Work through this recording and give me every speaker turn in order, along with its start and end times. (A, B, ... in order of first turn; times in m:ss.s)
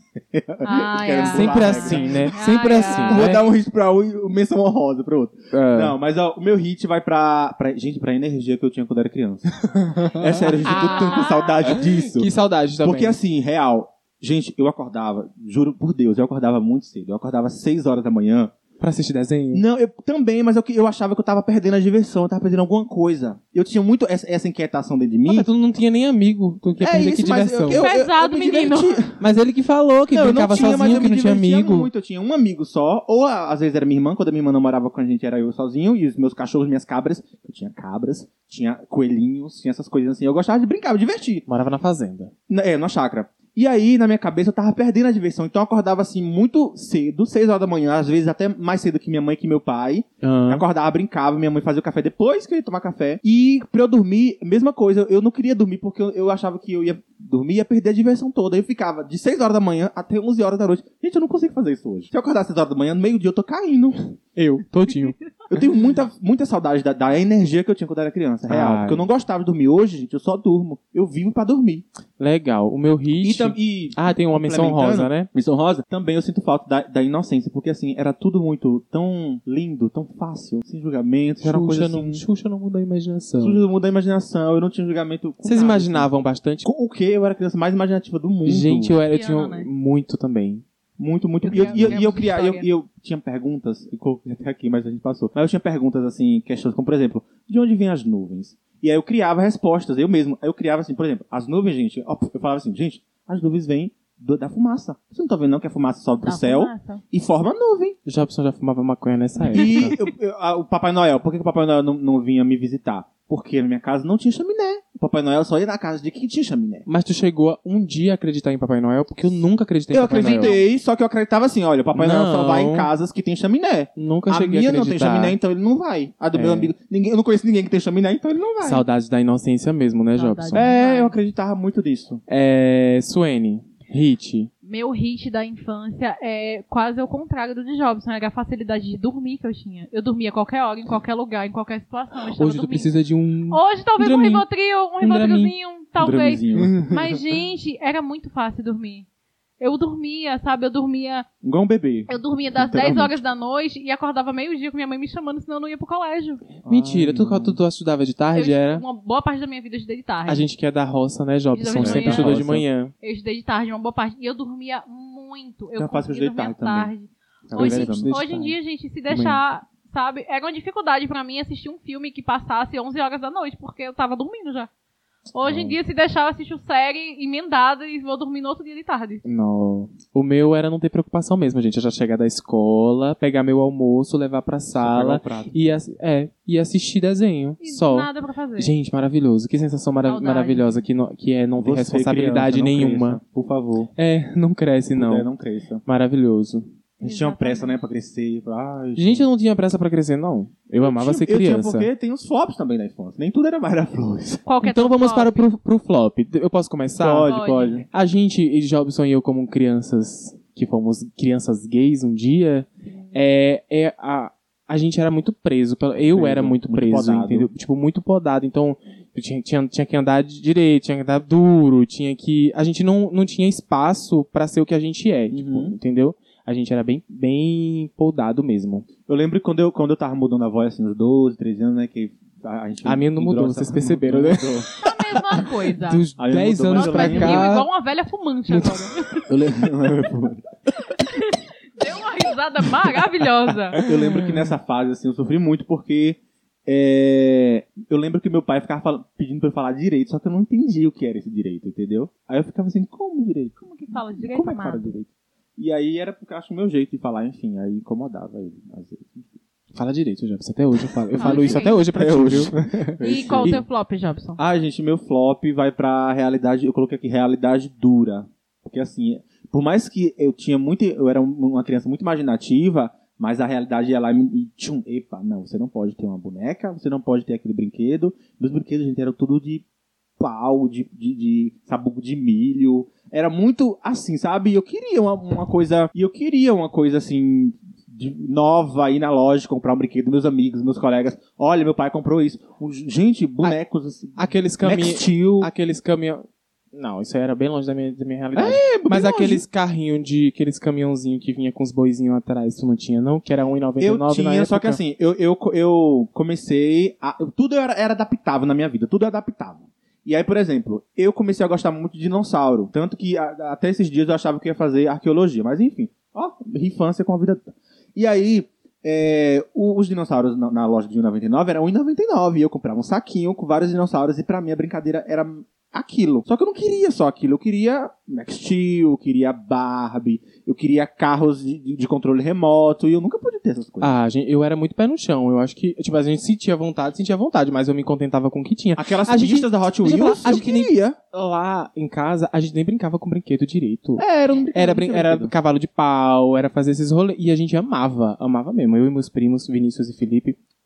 0:00.3-0:02.4 A
0:00.6-0:03.3 B
0:01.2-0:03.4 C
0:03.0-0:18.5 A
0:05.5-0:06.0 C
0:09.7-0:13.2 C
0:10.5-0:11.6 B
0:18.8-0:19.6 C
0:19.5-0:25.5 A
0:25.2-0:27.8 C
0:26.8-0:29.2 A
0:27.7-0:29.0 B
0:29.2-0:31.9 C
0:30.1-0:41.4 A
0:41.5-0:42.3 C
0:42.5-1:04.1 A
0:50.2-0:50.6 C
1:04.4-1:05.2 C
1:05.5-1:11.8 A
1:08.5-1:09.1 C
1:12.2-1:15.3 C
1:13.2-1:22.2 A
1:21.4-1:23.6 C
1:23.4-1:26.1 A
1:25.4-1:26.6 C
1:26.6-1:29.0 A
1:28.4-1:30.6 C
1:29.1-1:29.7 B
1:31.0-1:48.0 A
1:31.4-1:32.7 B
1:31.5-1:32.0 C
1:46.2-1:47.0 B
1:48.1-1:50.0 C
1:49.4-1:50.0 B
1:49.5-1:56.8 A
1:56.8-2:00.5 C
1:59.9-2:08.8 A
2:00.2-2:00.7 B
2:01.9-2:02.9 C
2:04.0-2:05.4 C
2:06.3-2:06.7 C
2:08.6-2:10.7 C
2:10.1-2:11.2 B
2:10.5-2:12.2 A
2:12.3-2:14.5 C
2:14.6-2:22.9 B
2:22.3-2:24.4 C
2:23.5-2:29.1 B
2:25.0-2:25.5 C
2:26.0-2:26.8 A
2:26.6-2:27.2 C
2:29.6-2:31.2 B
2:31.4-2:33.2 A
2:32.1-2:36.5 B
2:36.6-2:37.6 A
2:36.6-2:38.8 C
2:38.4-2:40.5 B
2:40.2-2:42.9 C
2:41.5-2:42.4 B
2:41.8-2:42.6 A
2:43.0-2:54.7 B
2:45.8-2:46.9 A
2:47.5-2:48.2 A
2:47.5-2:48.6 C
2:49.1-2:49.4 C
2:55.3-2:59.2 B
2:55.5-2:55.7 A
2:59.2-3:13.2 C
3:04.8-3:05.6 A
3:07.6-3:08.7 B
3:10.0-3:10.8 B
3:11.6-3:13.9 A
3:14.0-3:15.3 C
3:14.9-3:15.8 A
3:15.8-3:16.7 C
3:17.0-3:19.2 A
3:17.0-3:17.8 B
3:19.0-3:21.9 C
3:20.8-3:24.4 A
3:24.4-3:25.4 B
3:24.6-3:27.4 C
3:27.0-3:27.8 A
3:27.2-3:27.8 B
3:27.9-3:48.9 C
3:32.8-3:33.1 B
3:36.1-3:37.5 A
3:45.3-3:45.8 A
3:49.1-3:54.9 A
3:52.8-3:54.6 C
3:54.8-3:56.1 B
3:55.8-3:57.7 C
3:56.2-3:57.5 A
3:56.7-3:59.3 B
3:58.5-3:58.9 C
3:59.3-4:00.4 A
4:01.0-4:03.8 B
4:03.7-4:04.5 C
4:03.8-4:19.4 A
4:13.6-4:14.9 B
4:19.8-4:23.6 C
4:20.8-4:23.6 A
4:21.2-4:21.8 B
4:23.0-4:24.4 B
4:24.4-4:39.6 A
4:40.2-4:55.5 A
4:54.2-5:04.8 C
4:58.4-4:59.4 A
5:03.8-5:33.9 A
5:33.8-5:50.4 C
5:38.8-5:41.0 A
5:44.0-5:45.3 A